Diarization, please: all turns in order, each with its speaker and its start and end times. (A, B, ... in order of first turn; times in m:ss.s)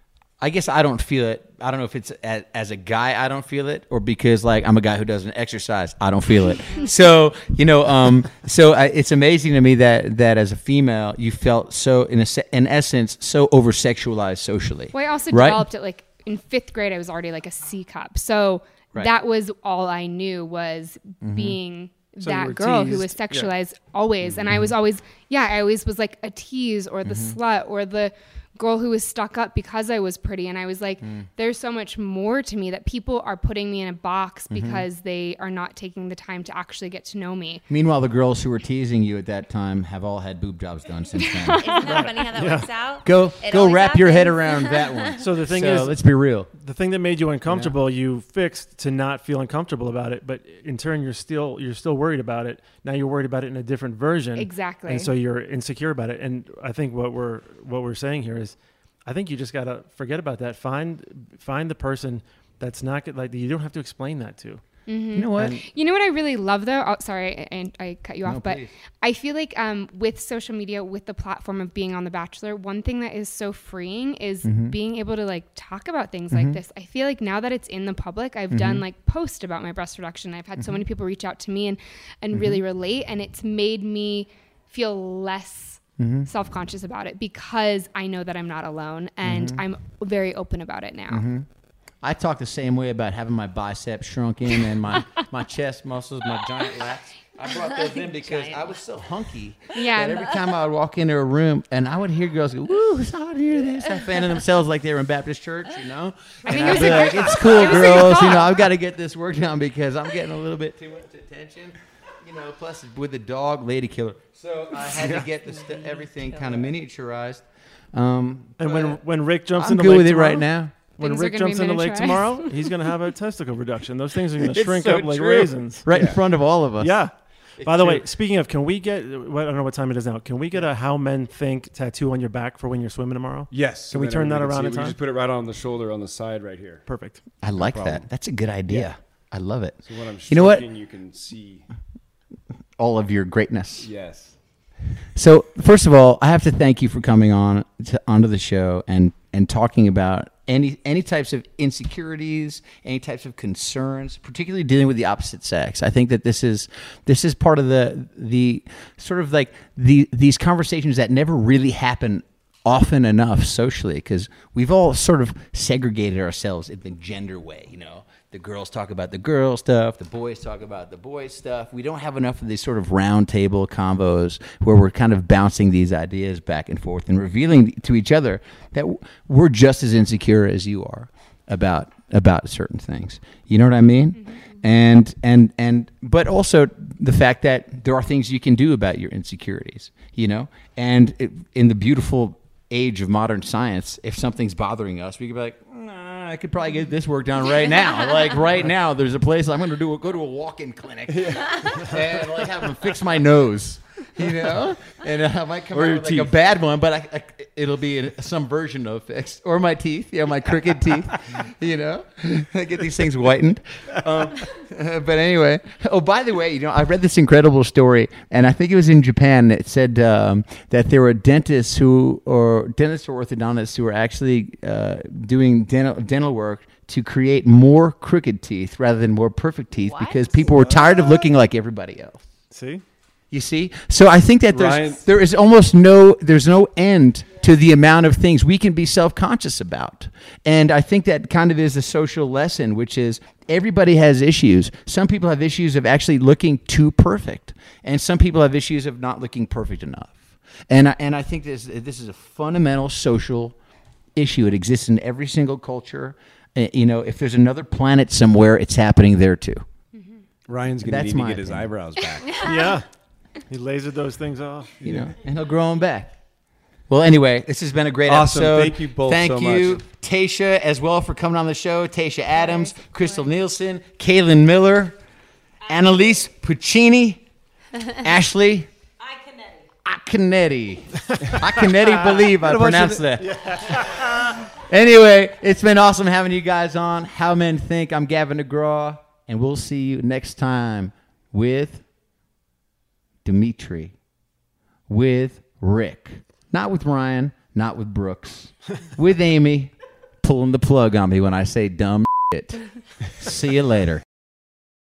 0:00.4-0:15.6 A
0:14.9-0:37.6 B
0:21.2-0:21.6 A
0:22.2-0:23.5 C
0:24.5-0:24.7 A
0:27.0-0:27.4 A
0:31.0-0:31.3 A
0:34.5-0:34.8 A
0:37.7-0:41.7 A
0:41.6-0:45.2 D
0:41.8-0:42.7 C
0:43.0-0:46.5 A
0:45.2-0:46.0 C
0:46.5-1:04.6 C
0:47.4-0:47.7 A
0:54.4-0:55.1 B
1:04.9-1:31.2 B
1:05.1-1:05.6 A
1:08.2-1:08.7 A
1:14.4-1:14.7 A
1:16.3-1:16.6 A
1:18.5-1:18.8 A
1:20.6-1:20.8 A
1:22.3-1:22.6 A
1:26.0-1:26.3 A
1:29.2-1:29.6 A
1:31.1-1:31.4 A
1:32.0-1:59.0 A
1:37.9-1:38.6 D
1:39.7-1:40.4 B
1:46.4-1:48.6 B
1:46.6-1:47.3 C
1:54.9-1:55.3 C
1:55.6-1:56.6 D
1:58.6-2:06.1 C
1:59.6-2:00.8 A
2:01.0-2:02.7 B
2:04.4-2:07.0 A
2:05.9-2:06.2 E
2:06.8-2:15.0 C
2:07.6-2:08.1 A
2:13.5-2:16.8 E
2:16.9-2:17.2 C
2:17.4-2:20.7 A
2:17.6-2:18.0 E
2:19.8-2:21.6 E
2:22.8-2:23.9 A
2:23.8-2:24.4 E
2:25.1-3:52.2 A
3:21.1-3:22.0 E
3:25.7-3:26.3 E
3:49.8-3:50.4 D
3:50.4-3:51.3 E
3:52.5-3:52.8 C
3:53.3-4:13.6 A
3:54.5-3:55.0 E
4:14.2-4:19.6 A
4:19.9-4:20.2 B
4:20.5-4:22.4 E
4:20.8-4:21.7 A
4:22.4-4:22.8 C
4:22.4-4:22.7 D
4:23.5-4:24.8 C
4:24.8-4:25.1 E
4:24.8-4:26.1 A
4:26.9-4:35.0 A
4:28.1-4:29.8 E
4:35.6-4:37.2 A
4:38.0-4:38.7 A
4:39.8-4:51.8 A
4:42.4-4:43.3 E
4:43.3-4:44.0 C
4:53.2-4:53.9 A
4:54.9-5:04.0 A